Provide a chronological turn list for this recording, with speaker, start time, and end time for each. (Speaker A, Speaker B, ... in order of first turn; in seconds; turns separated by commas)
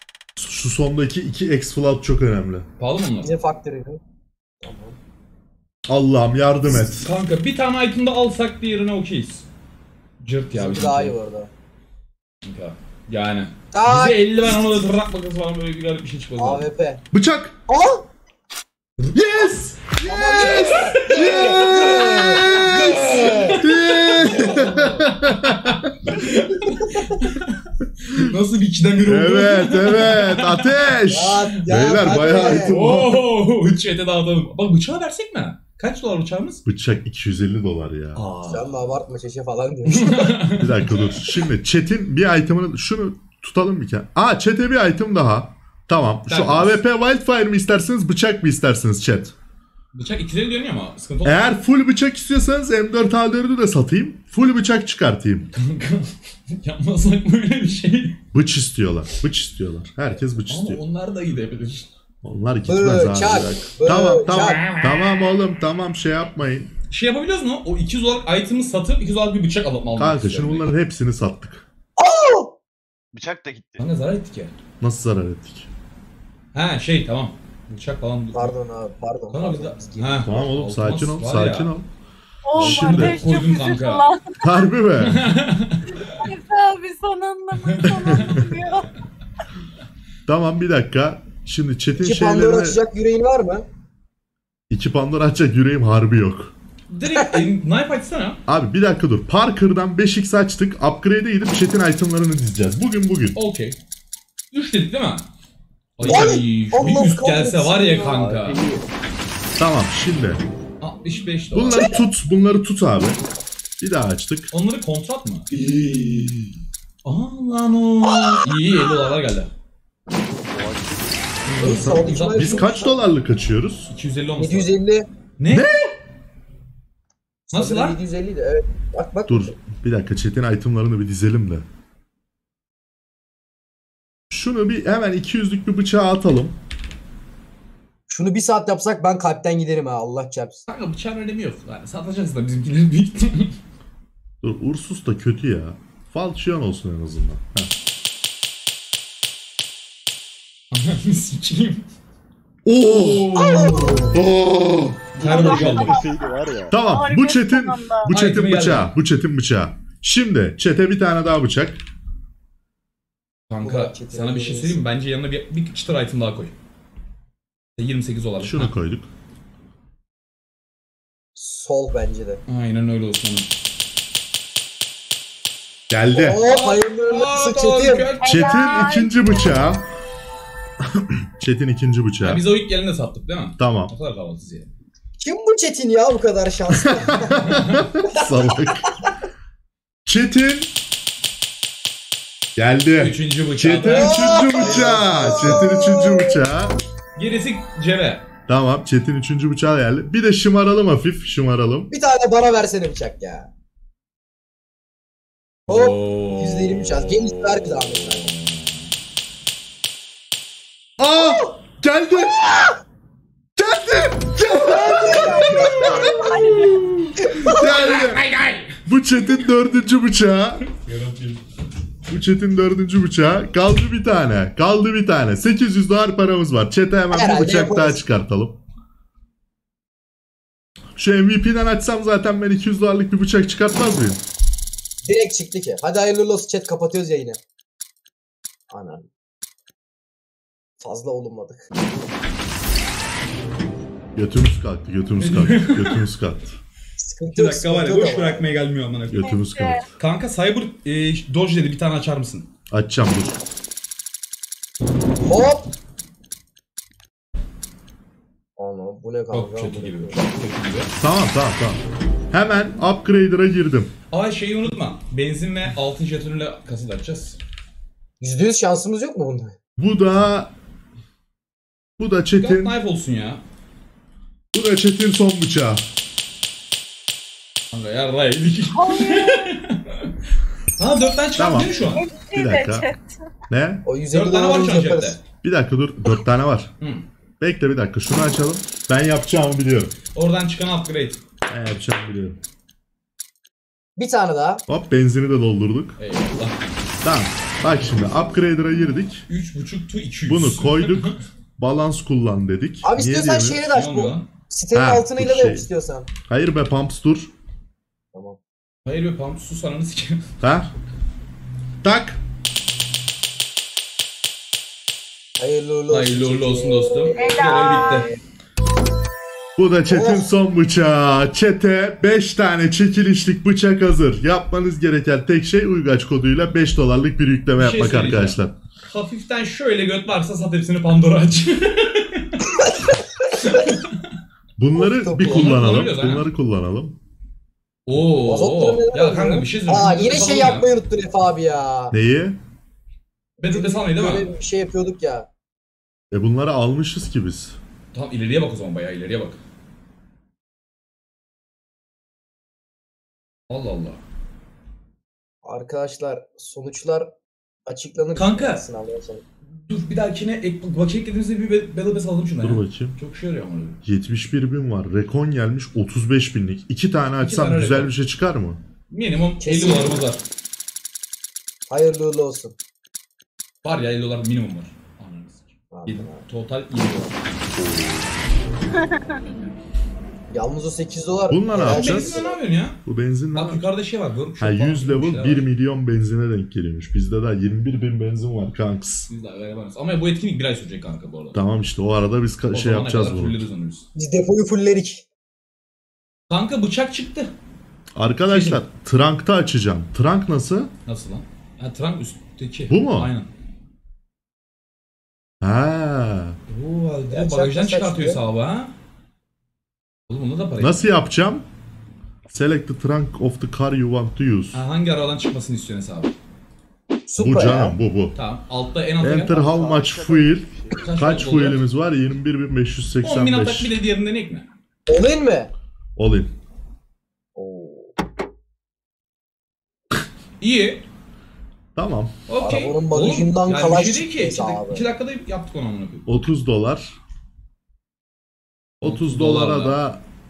Speaker A: 0.4-2.7, Speaker B: 2.8-3.4, Speaker C: 3.2-4.0, Speaker C: 4.6-5.0, Speaker A: 5.9-7.1, Speaker B: 6.9-9.5, Speaker B: 10.2-11.2, Speaker C: 10.5-11.5, Speaker B: 12.4-16.7, Speaker C: 13.7-14.2, Speaker C: 16.4-17.0, Speaker A: 17.1-17.6, Speaker C: 17.7-18.1, Speaker B: 19.0-19.8, Speaker A: 19.1-25.9, Speaker C: 20.1-23.6, Speaker B: 20.4-30.9, Speaker A: 29.0-33.1, Speaker C: 31.1-32.8, Speaker B: 32.5-36.6, Speaker A: 36.7-38.2, Speaker B: 38.1-39.0, Speaker C: 38.5-40.5, Speaker B: 39.9-41.2, Speaker A: 40.6-49.3, Speaker B: 46.3-46.8, Speaker B: 49.9-51.5, Speaker A: 51.2-55.5, Speaker B: 55.5-58.2, Speaker A: 58.3-60.8, Speaker B: 60.4-61.9, Speaker A: 62.2-66.7, Speaker C: 62.7-64.6, Speaker B: 64.4-65.0, Speaker B: 66.9-70.7, Speaker A: 70.0-71.7, Speaker C: 72.0-72.5, Speaker D: 73.1-73.8, Speaker B: 73.8-74.5, Speaker A: 74.8-75.7, Speaker B: 76.5-78.6, Speaker C: 78.3-80.2, Speaker B: 79.3-81.7, Speaker A: 80.2-81.9, Speaker E: 82.5-84.5, Speaker A: 82.5-83.2, Speaker B: 82.6-84.1, Speaker A: 84.4-85.2, Speaker B: 85.0-86.2, Speaker E: 86.0-88.9, Speaker B: 87.6-88.4, Speaker A: 87.8-88.5, Speaker A: 90.3-92.8, Speaker C: 92.0-93.7, Speaker A: 94.7-96.5, Speaker B: 96.9-98.4, Speaker A: 98.5-103.4, Speaker B: 103.4-103.8, Speaker B: 104.5-105.3, Speaker B: 106.0-108.7, Speaker C: 106.0-108.3, Speaker D: 108.2-108.9, Speaker A: 109.6-110.4, Speaker B: 110.8-112.0, Speaker A: 111.5-113.2, Speaker A: 113.8-114.5, Speaker B: 114.5-115.5, Speaker D: 115.5-116.5, Speaker B: 117.0-119.5, Speaker D: 120.5-121.8, Speaker A: 121.5-123.9, Speaker C: 121.6-123.0, Speaker B: 121.6-122.7, Speaker B: 123.9-124.7, Speaker C: 124.4-125.1, Speaker B: 125.4-125.7, Speaker A: 125.5-125.9, Speaker C: 127.5-129.5, Speaker B: 127.5-128.0, Speaker A: 129.3-131.7, Speaker A: 134.3-136.6, Speaker C: 138.1-140.6, Speaker B: 140.7-143.6, Speaker A: 144.4-147.7, Speaker B: 150.7-151.8, Speaker A: 152.7-153.3, Speaker B: 152.8-154.2, Speaker C: 153.3-154.2, Speaker A: 154.1-155.2, Speaker B: 155.2-156.0, Speaker C: 155.2-155.6, Speaker D: 155.2-156.8, Speaker E: 155.2-156.2, Speaker A: 156.7-161.8, Speaker E: 156.8-158.1, Speaker B: 158.1-158.9, Speaker B: 163.5-166.5, Speaker C: 163.6-164.8, Speaker B: 167.8-168.7, Speaker A: 168.4-169.1, Speaker C: 171.4-172.4, Speaker B: 172.5-173.5, Speaker A: 175.9-176.4, Speaker C: 176.1-178.1, Speaker B: 176.4-178.6, Speaker E: 178.2-179.5, Speaker A: 178.2-179.8, Speaker A: 181.0-182.4, Speaker B: 182.2-184.7, Speaker A: 183.6-183.9, Speaker C: 185.2-188.7, Speaker A: 186.7-188.8, Speaker B: 187.4-187.9, Speaker A: 190.1-190.7, Speaker A: 192.6-196.8, Speaker B: 193.0-195.6, Speaker C: 193.9-196.4, Speaker B: 197.2-198.2, Speaker A: 198.5-201.9, Speaker C: 201.9-203.5, Speaker C: 205.7-208.3, Speaker B: 205.7-208.9, Speaker A: 211.0-212.7, Speaker C: 211.2-211.5, Speaker A: 213.6-218.2, Speaker C: 214.6-216.5, Speaker E: 215.9-216.8, Speaker C: 217.2-217.6, Speaker B: 217.4-218.8, Speaker A: 218.8-220.7, Speaker B: 220.7-221.4, Speaker A: 222.1-228.6, Speaker C: 227.1-228.0, Speaker A: 231.0-234.2, Speaker C: 235.1-237.4, Speaker C: 238.7-239.1, Speaker C: 240.8-241.6, Speaker A: 244.2-246.6, Speaker B: 245.2-246.1, Speaker C: 247.0-248.5, Speaker B: 247.3-249.3, Speaker A: 249.1-249.8, Speaker E: 249.2-249.8, Speaker B: 250.0-252.5, Speaker A: 252.7-253.4, Speaker C: 255.2-255.7, Speaker C: 258.6-260.2, Speaker B: 259.3-260.9, Speaker A: 261.0-263.9, Speaker B: 264.1-267.4, Speaker C: 268.2-269.5, Speaker A: 269.8-270.5, Speaker A: 272.0-272.8, Speaker B: 272.4-273.4, Speaker A: 274.5-275.9, Speaker B: 277.7-280.1, Speaker E: 278.7-279.5, Speaker B: 280.8-282.1, Speaker A: 281.4-281.8, Speaker E: 281.9-283.3, Speaker A: 282.3-282.9, Speaker A: 283.5-283.9, Speaker C: 283.9-285.2, Speaker B: 284.1-285.2, Speaker A: 285.4-286.7, Speaker B: 286.8-287.1, Speaker A: 287.4-289.9, Speaker B: 290.1-291.2, Speaker A: 291.5-292.4, Speaker C: 294.0-294.6, Speaker A: 294.7-296.0, Speaker B: 296.0-296.6, Speaker A: 297.0-299.2, Speaker B: 299.3-301.2, Speaker A: 300.3-303.7, Speaker C: 302.8-306.1, Speaker B: 303.7-304.3, Speaker A: 304.7-305.7, Speaker A: 306.2-307.3, Speaker B: 308.9-310.2, Speaker A: 310.4-310.7, Speaker A: 311.8-312.2, Speaker C: 315.4-318.2, Speaker B: 315.9-318.1, Speaker E: 317.1-318.1, Speaker A: 319.6-328.6, Speaker C: 319.9-320.3, Speaker B: 327.6-332.4, Speaker C: 332.6-333.6, Speaker B: 333.4-334.0, Speaker A: 334.6-337.0, Speaker C: 334.7-335.6, Speaker B: 335.3-336.3, Speaker B: 337.9-340.7, Speaker C: 338.2-342.0, Speaker A: 341.9-342.4, Speaker B: 343.4-344.3, Speaker C: 343.5-345.3, Speaker A: 346.1-347.6, Speaker B: 347.9-349.4, Speaker B: 353.5-354.0, Speaker C: 355.4-357.1, Speaker C: 357.7-359.2, Speaker B: 358.1-358.6, Speaker B: 359.6-363.8, Speaker A: 362.4-363.0, Speaker A: 363.9-368.6, Speaker B: 367.2-367.9, Speaker B: 368.9-370.2, Speaker C: 369.4-370.0, Speaker C: 371.7-372.6, Speaker B: 373.6-377.2, Speaker C: 375.7-376.2, Speaker A: 377.6-378.2, Speaker C: 380.3-382.4, Speaker A: 381.3-382.3, Speaker B: 381.6-382.8, Speaker A: 382.8-383.7, Speaker B: 383.3-385.5, Speaker A: 384.4-389.1, Speaker B: 389.1-391.4, Speaker A: 391.3-393.4, Speaker B: 392.5-393.9, Speaker C: 393.9-395.1, Speaker B: 396.3-397.3, Speaker A: 397.9-400.7, Speaker B: 398.3-398.6, Speaker B: 400.9-403.3, Speaker A: 402.7-403.1, Speaker A: 405.4-406.4, Speaker B: 406.5-408.7, Speaker C: 407.1-408.2, Speaker B: 410.1-410.9, Speaker A: 410.6-411.4, Speaker A: 412.3-414.6, Speaker B: 414.5-416.1, Speaker C: 417.1-417.8, Speaker A: 417.2-418.2, Speaker B: 418.1-419.5, Speaker A: 419.0-423.7, Speaker D: 419.3-420.9, Speaker B: 420.8-421.6, Speaker B: 423.0-424.5, Speaker C: 424.9-425.5, Speaker A: 426.0-426.3, Speaker C: 427.4-427.9, Speaker B: 430.4-430.9, Speaker A: 431.8-432.1, Speaker B: 432.3-436.1, Speaker C: 432.4-434.9, Speaker A: 436.1-437.0, Speaker A: 438.8-440.0, Speaker B: 438.8-439.8